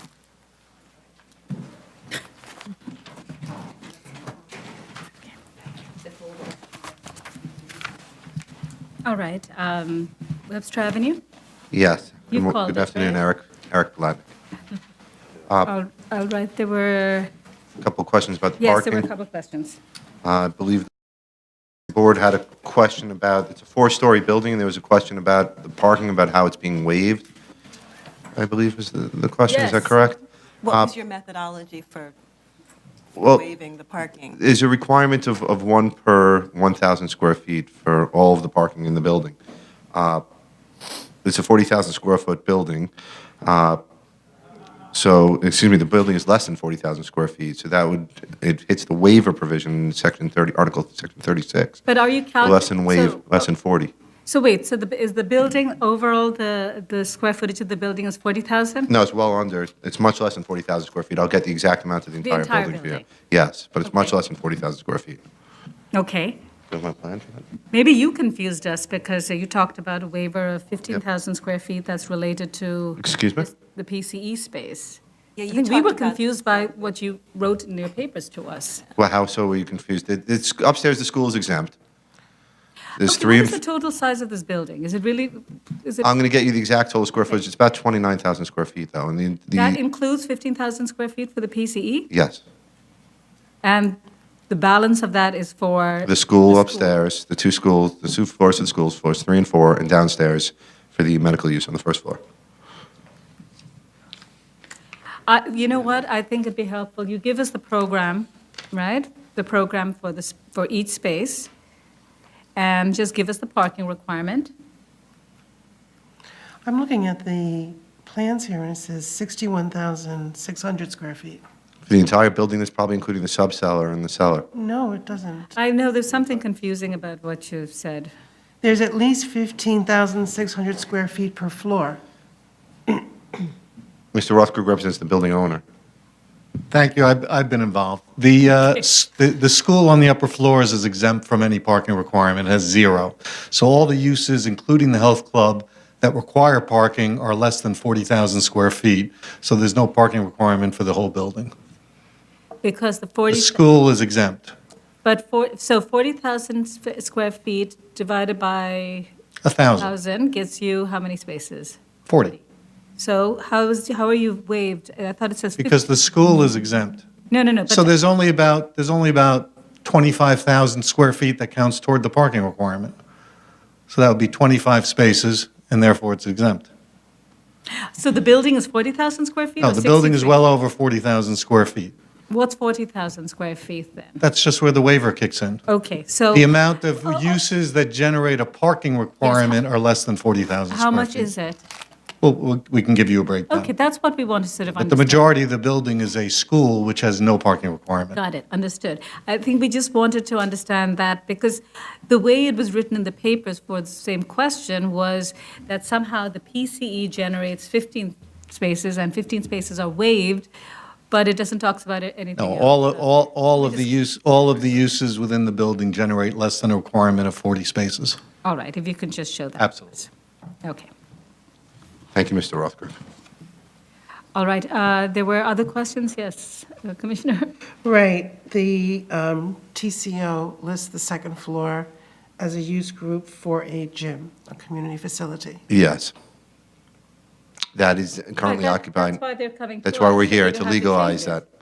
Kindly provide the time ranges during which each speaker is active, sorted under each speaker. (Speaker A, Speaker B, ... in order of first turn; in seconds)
Speaker A: 9.0-11.2, 12.3-13.2, 15.7-17.3, 18.6-19.8, 29.5-30.0, 51.9-53.5, 54.2-58.9, 62.2-63.0, 65.9-66.4, 67.7-78.8, 83.0-86.1, 89.5-92.1, 93.6-97.0, 105.3-111.5, 112.5-114.5, 125.5-128.1, 152.6-153.6, 155.0-159.1, 159.8-161.8, 163.0-165.8, 167.3-167.9, 177.9-180.4, 182.3-184.2, 185.7-186.5, 189.2-189.6, 190.7-191.6, 193.5-195.2, 198.1-210.5, 211.1-213.9, 218.4-220.1, 220.6-220.9, 224.3-227.5, 238.4-241.4
Speaker B: 11.7-14.3, 17.8-19.1, 20.2-20.9, 21.9-27.3, 28.4-30.9, 33.2-33.5, 34.3-39.4, 39.9-40.2, 41.2-42.9, 43.4-43.8, 44.9-51.8, 52.4-53.9, 58.9-65.2, 66.7-67.4, 73.0-73.5, 79.0-81.7, 83.0-83.6, 86.0-89.8, 92.1-92.4, 96.0-102.2, 121.9-124.5, 134.1-135.6, 222.1-222.9, 235.7-236.1, 237.7-239.2, 239.8-241.4
Speaker C: 30.6-32.1, 33.3-34.4, 75.4-76.3
Speaker D: 116.6-121.4, 124.5-125.5, 128.6-132.0, 227.8-235.6
Speaker E: 136.7-151.5, 153.3-154.5, 159.4-159.9, 162.1-162.4, 165.6-167.1, 167.7-172.9, 173.9-176.7, 179.6-181.9, 184.2-185.6, 186.3-191.3, 192.2-193.7, 194.8-198.2, 212.4-218.2, 219.6-219.9